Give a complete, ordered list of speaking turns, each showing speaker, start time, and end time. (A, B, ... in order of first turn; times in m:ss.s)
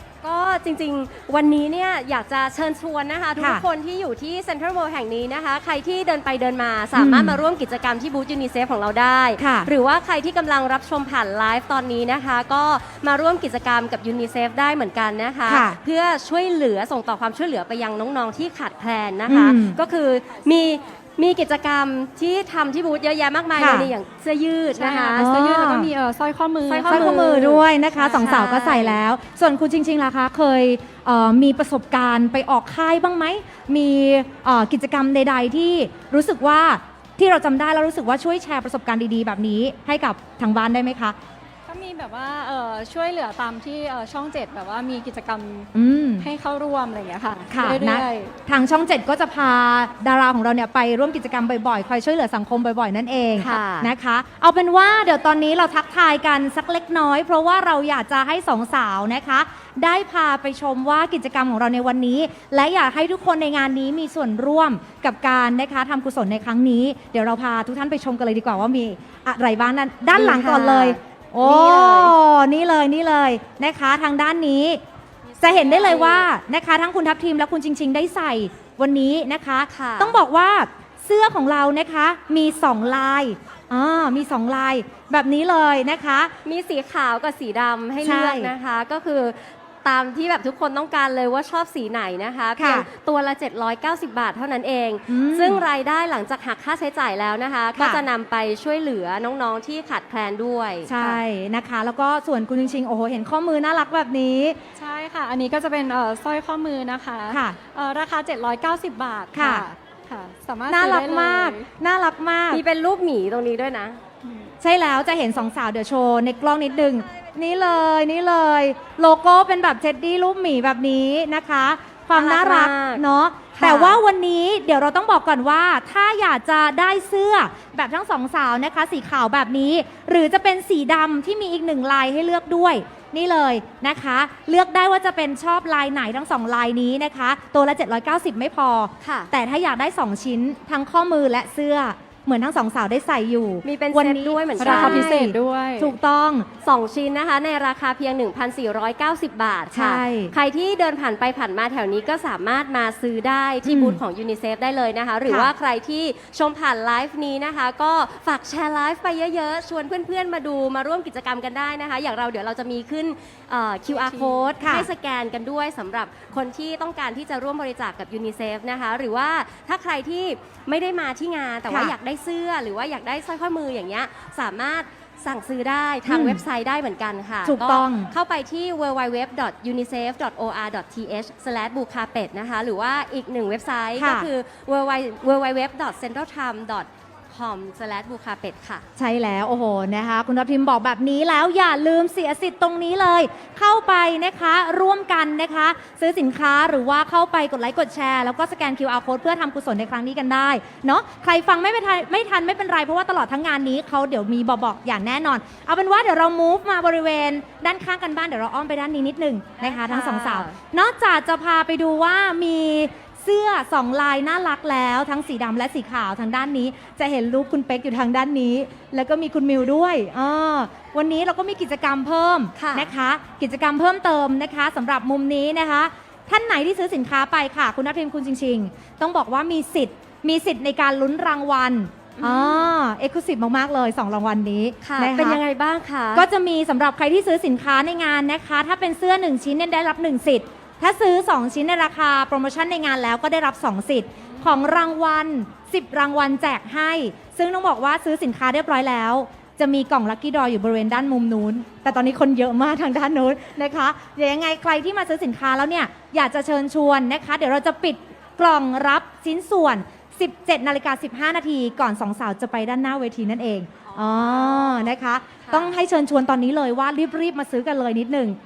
0:00.2-0:25.3 A
0:03.4-0:03.6 B
0:06.9-0:07.4 B
0:09.4-0:09.7 B
0:15.5-0:15.8 B
0:19.2-0:19.8 B
0:23.6-0:23.9 B
0:24.7-0:28.4 C
0:25.2-0:25.9 B
0:26.7-0:27.5 A
0:26.9-0:41.2 B
0:28.1-0:29.0 A
0:41.7-0:48.3 C
0:45.7-0:46.3 B
0:47.5-1:14.8 B
0:53.4-0:53.9 A
1:10.1-1:12.1 A
1:15.4-1:16.3 A
1:15.4-1:26.3 B
1:19.7-1:20.2 A
1:26.4-1:41.2 A
1:28.0-1:28.5 B
1:32.6-1:32.9 B
1:35.1-1:35.6 B
1:37.8-1:38.0 B
1:40.8-1:44.6 B
1:44.8-1:51.6 C
1:47.3-1:47.6 B
1:49.3-1:49.6 B
1:50.7-1:52.6 B
1:52.5-1:54.0 A
1:54.6-2:26.5 B
2:02.1-2:03.0 A
2:03.6-2:04.0 A
2:19.0-2:19.3 A
2:23.6-2:25.1 A
2:24.6-2:26.0 C
2:26.6-3:08.8 A
2:29.7-2:30.3 B
2:33.6-2:34.0 B
2:35.2-2:35.5 B
2:44.0-2:44.5 C
2:44.6-2:44.9 B
2:51.7-2:51.9 B
2:56.1-2:56.4 B
2:57.4-2:58.1 B
3:04.0-3:04.3 B
3:09.0-3:55.4 B
3:29.6-3:30.6 A
3:42.5-3:42.9 A
3:52.2-3:52.7 A
3:54.8-3:56.2 A
3:56.1-4:28.4 B
4:04.3-4:04.6 A
4:23.9-4:25.8 A